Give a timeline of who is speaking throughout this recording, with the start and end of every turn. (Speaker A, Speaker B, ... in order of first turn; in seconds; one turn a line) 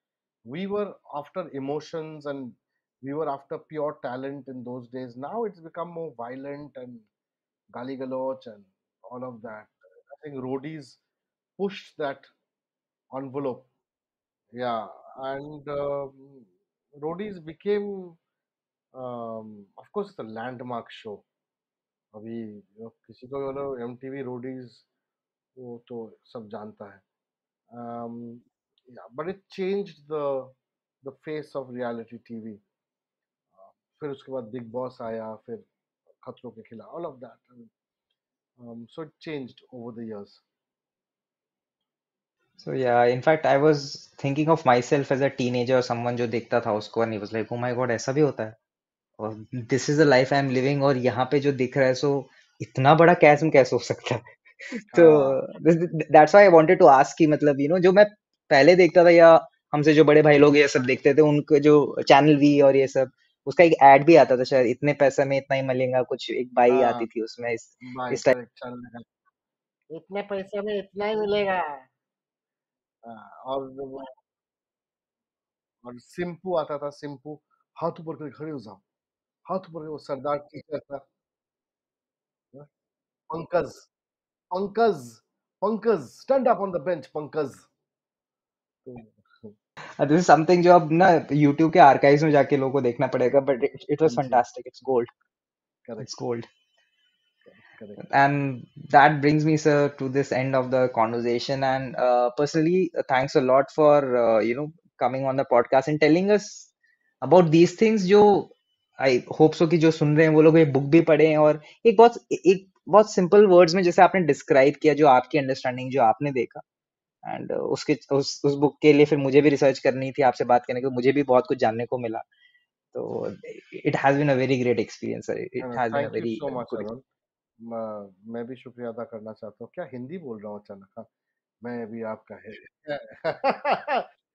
Speaker A: 0.5-7.1
Speaker A: 7.7-11.0
Speaker A: 11.6-12.3
Speaker A: 13.1-13.7
Speaker A: 14.5-16.5
Speaker A: 17.0-18.2
Speaker A: 18.9-21.2
Speaker A: 22.1-24.9
Speaker A: 25.6-27.0
Speaker A: 27.7-32.6
Speaker A: 33.5-35.7
Speaker A: 36.2-37.7
Speaker A: 38.6-40.4
Speaker B: 42.6-48.6
Speaker B: 49.2-54.2
Speaker A: 54.8-55.4
Speaker B: 54.9-68.3
Speaker A: 66.7-67.1
Speaker A: 67.8-69.1
Speaker A: 69.9-71.9
Speaker A: 73.0-74.1
Speaker A: 75.8-78.8
Speaker A: 79.5-81.0
Speaker A: 83.3-83.9
Speaker A: 84.5-87.7
Speaker A: 88.8-89.5
Speaker B: 90.0-95.1
Speaker A: 94.0-94.4
Speaker A: 95.8-96.1
Speaker B: 96.0-96.5
Speaker A: 97.5-98.0
Speaker B: 98.0-106.7
Speaker B: 107.2-116.6
Speaker B: 117.2-122.2
Speaker B: 122.9-126.9
Speaker A: 125.6-127.0
Speaker A: 127.6-131.1
Speaker A: 131.6-134.0